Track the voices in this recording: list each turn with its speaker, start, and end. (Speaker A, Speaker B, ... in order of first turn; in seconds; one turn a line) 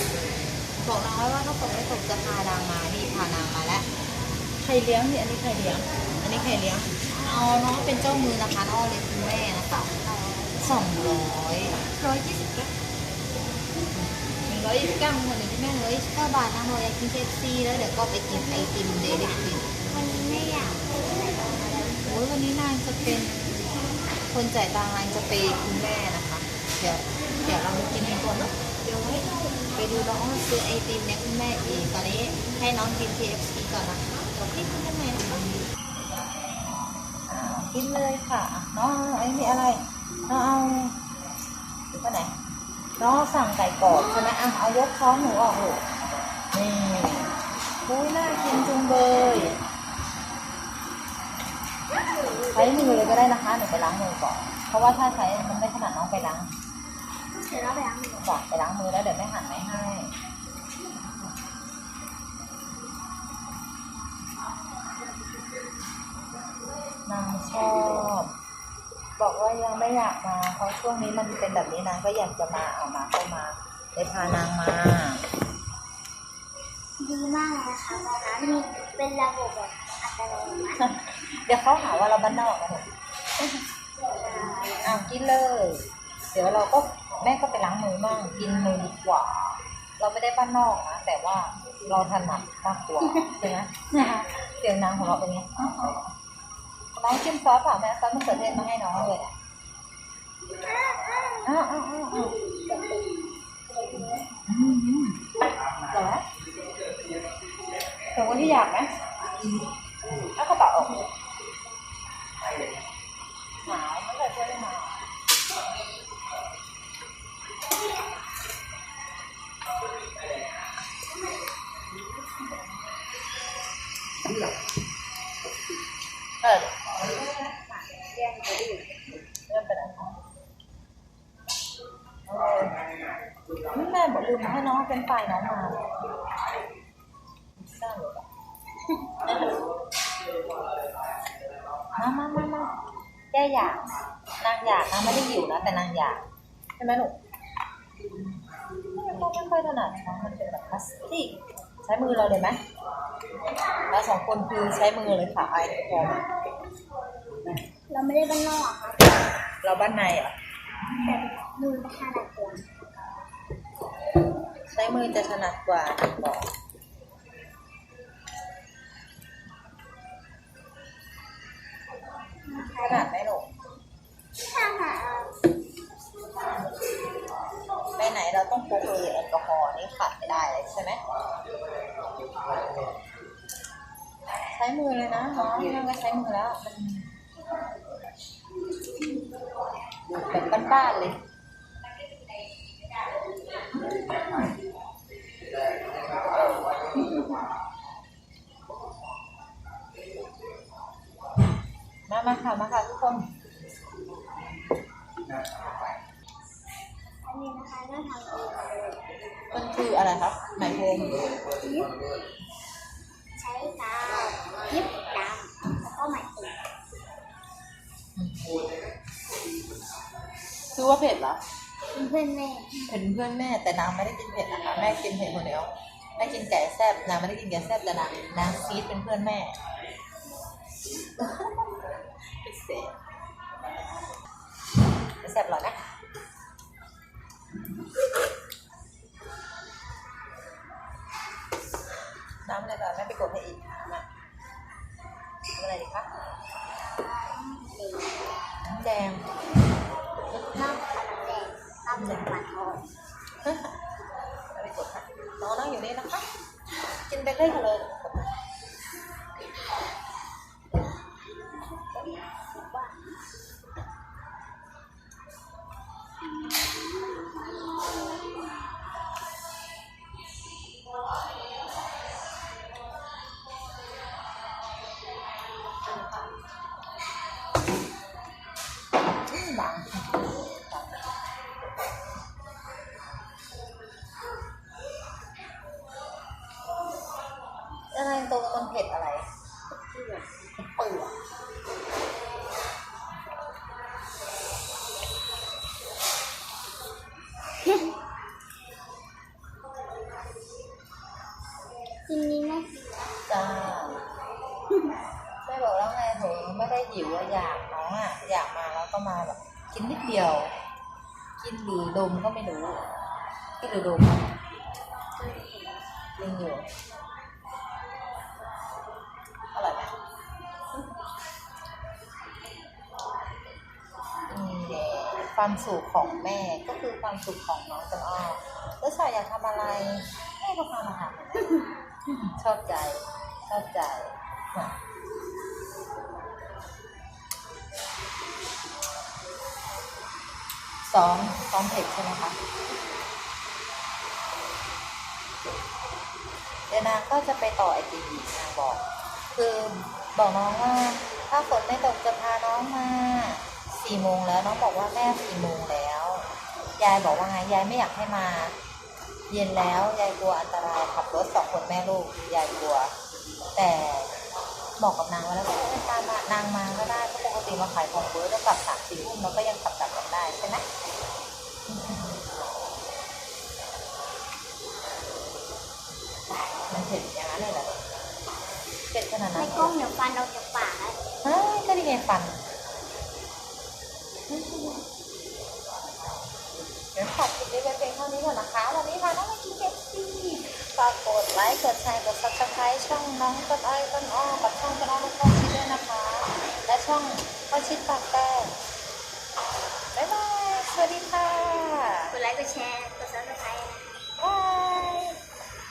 Speaker A: 0.8-3.9
Speaker A: 4.6-12.7
Speaker A: 13.9-20.0
Speaker B: 18.5-22.1
Speaker A: 22.0-29.2
Speaker B: 29.2-29.7
Speaker A: 29.8-35.6
Speaker A: 37.3-41.0
Speaker A: 41.9-42.3
Speaker A: 43.0-45.9
Speaker A: 46.5-49.6
Speaker B: 52.0-53.4
Speaker A: 52.5-56.5
Speaker B: 57.4-58.3
Speaker A: 58.2-60.1
Speaker A: 67.1-68.3
Speaker A: 69.2-75.2
Speaker B: 77.0-80.8
Speaker A: 80.8-82.9
Speaker B: 84.2-85.0
Speaker A: 84.8-96.0
Speaker A: 97.0-99.3
Speaker B: 100.6-101.5
Speaker A: 101.5-102.4
Speaker B: 102.2-103.3
Speaker B: 104.0-104.2
Speaker A: 104.0-106.2
Speaker A: 108.1-108.9
Speaker A: 110.1-111.1
Speaker A: 113.6-115.1
Speaker A: 126.4-127.0
Speaker B: 127.5-129.0
Speaker A: 129.5-130.2
Speaker A: 132.3-132.8
Speaker A: 133.7-135.9
Speaker A: 137.6-138.3
Speaker A: 139.3-139.6
Speaker A: 142.0-142.8
Speaker A: 143.3-146.2
Speaker A: 146.8-147.2
Speaker A: 148.8-152.6
Speaker A: 153.9-156.3
Speaker B: 157.9-159.1
Speaker A: 159.6-160.3
Speaker B: 160.9-162.7
Speaker A: 164.7-166.5
Speaker B: 172.4-173.1
Speaker A: 172.8-173.5
Speaker B: 174.4-175.4
Speaker A: 178.0-181.0
Speaker A: 184.5-187.1
Speaker A: 190.2-191.2
Speaker A: 202.1-203.3
Speaker B: 207.2-209.0
Speaker A: 209.5-211.3
Speaker B: 211.5-211.9
Speaker B: 213.4-216.6
Speaker A: 218.2-218.5
Speaker A: 220.7-221.4
Speaker B: 221.9-223.0
Speaker A: 222.9-229.6
Speaker A: 231.2-232.9
Speaker A: 235.2-235.8
Speaker A: 242.4-244.1
Speaker A: 245.6-246.1
Speaker B: 246.8-248.4
Speaker A: 248.6-249.2
Speaker B: 250.5-252.9
Speaker A: 251.9-252.3
Speaker A: 253.4-253.7
Speaker A: 254.5-256.3
Speaker A: 257.1-258.3
Speaker B: 261.6-263.1
Speaker B: 266.4-268.4
Speaker A: 279.3-280.9
Speaker A: 287.9-289.3
Speaker B: 289.9-290.4
Speaker A: 290.6-291.1
Speaker B: 297.6-297.9
Speaker B: 302.1-303.2
Speaker A: 303.3-304.1
Speaker A: 305.4-310.5
Speaker A: 311.4-312.8
Speaker A: 313.6-314.3
Speaker B: 315.2-315.8
Speaker A: 316.2-316.7
Speaker A: 319.5-319.9
Speaker A: 324.3-334.8
Speaker A: 340.8-342.4
Speaker A: 346.7-356.3
Speaker A: 356.8-358.5
Speaker A: 359.3-362.9
Speaker A: 363.6-364.1
Speaker A: 364.8-370.6
Speaker A: 371.7-372.2
Speaker A: 376.7-377.8
Speaker A: 378.9-379.8
Speaker B: 379.3-381.0
Speaker A: 381.2-382.4
Speaker A: 384.3-384.8
Speaker A: 386.9-398.6
Speaker A: 399.9-402.1
Speaker B: 402.1-404.0
Speaker A: 404.2-405.2